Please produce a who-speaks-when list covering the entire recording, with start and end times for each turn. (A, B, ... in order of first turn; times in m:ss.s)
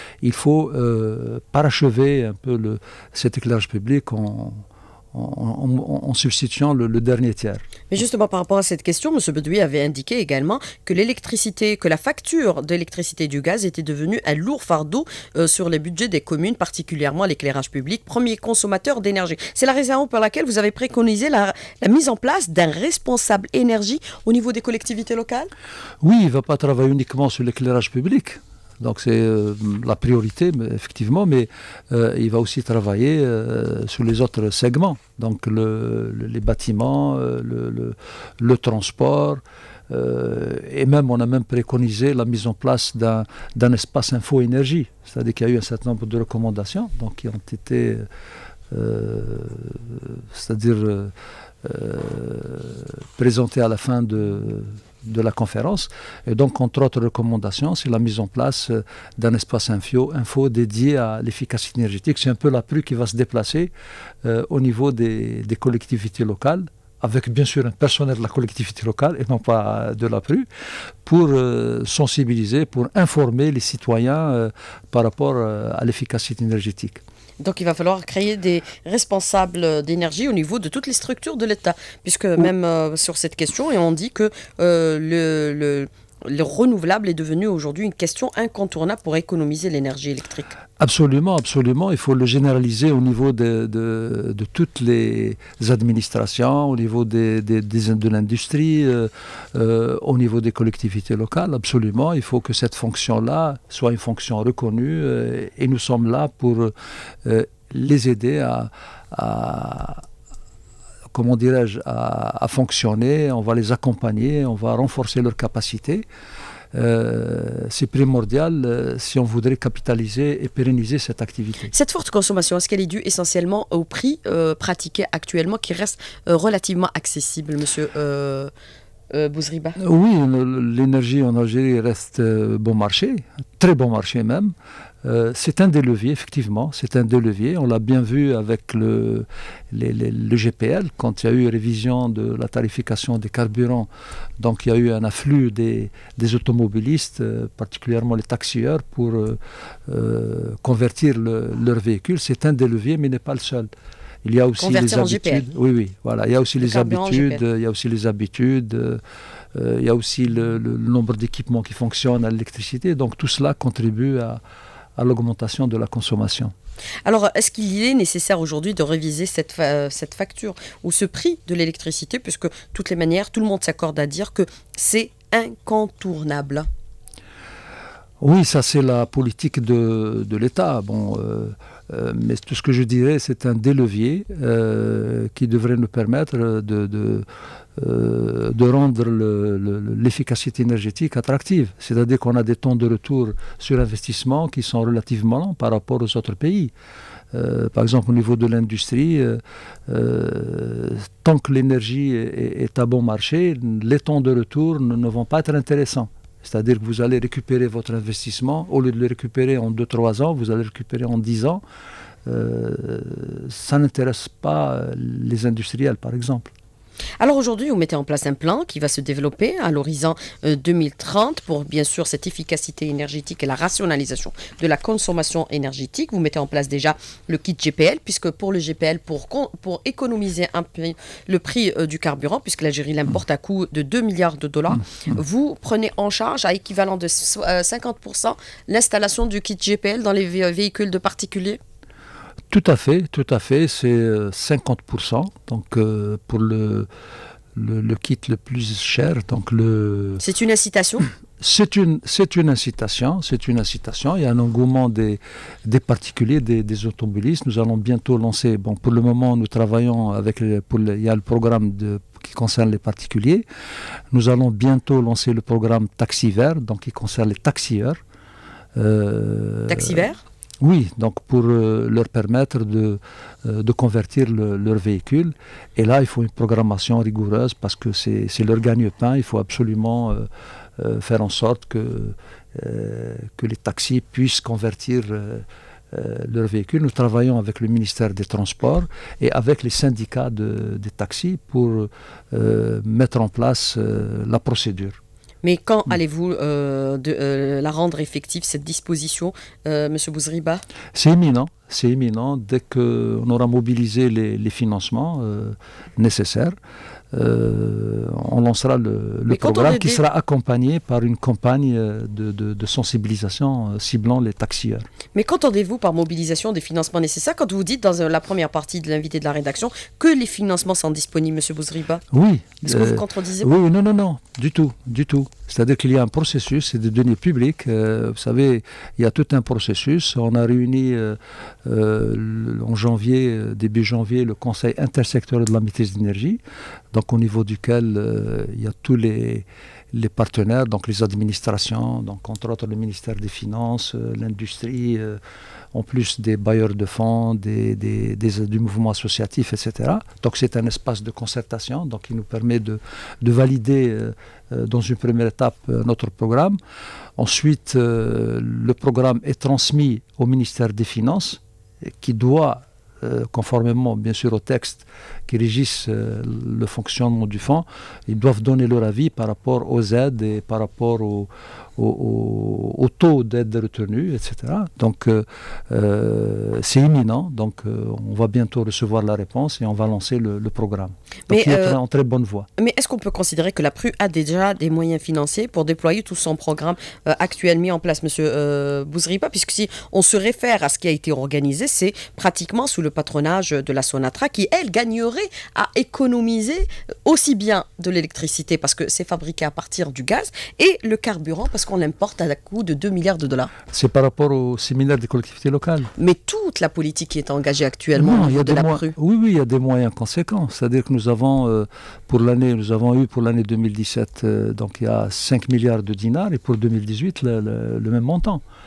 0:00.2-0:07.7 A
0:07.9-0:25.5 B
0:26.0-0:48.1 A
0:48.7-1:03.7 A
1:04.2-1:10.5 A
1:11.0-1:17.0 A
1:17.4-1:30.6 B
1:30.8-1:46.7 A
1:47.2-1:50.0 A
1:51.1-1:56.0 A
1:56.7-2:01.7 A
2:01.7-2:08.5 B
2:09.1-2:09.8 B
2:09.8-2:33.7 A
2:34.2-2:39.0 A
2:34.6-2:35.4 B
2:36.6-2:37.4 B
2:39.5-2:44.4 A
2:45.0-2:46.5 A
2:47.0-2:56.7 B
2:58.2-3:16.7 A
3:17.3-3:31.6 A
3:32.2-3:36.5 A
3:37.2-4:01.6 B
4:02.5-4:06.9 A
4:07.5-4:10.2 A
4:10.2-4:11.1 B
4:11.4-4:23.4 A
4:24.1-4:28.0 A
4:28.8-4:30.1 A
4:29.7-4:30.2 B
4:30.6-4:55.0 A
4:55.4-5:00.6 B
5:00.9-5:06.6 A
5:07.1-5:14.9 A
5:09.3-5:10.0 B
5:15.1-5:22.0 B
5:22.1-5:36.4 A
5:22.6-5:23.5 B
5:36.9-5:45.2 A
5:45.7-5:56.6 A
5:57.2-6:22.5 A
6:21.3-6:21.8 B
6:22.6-6:43.5 B
6:43.7-6:45.9 A
6:46.0-6:49.0 B
6:48.0-6:58.4 A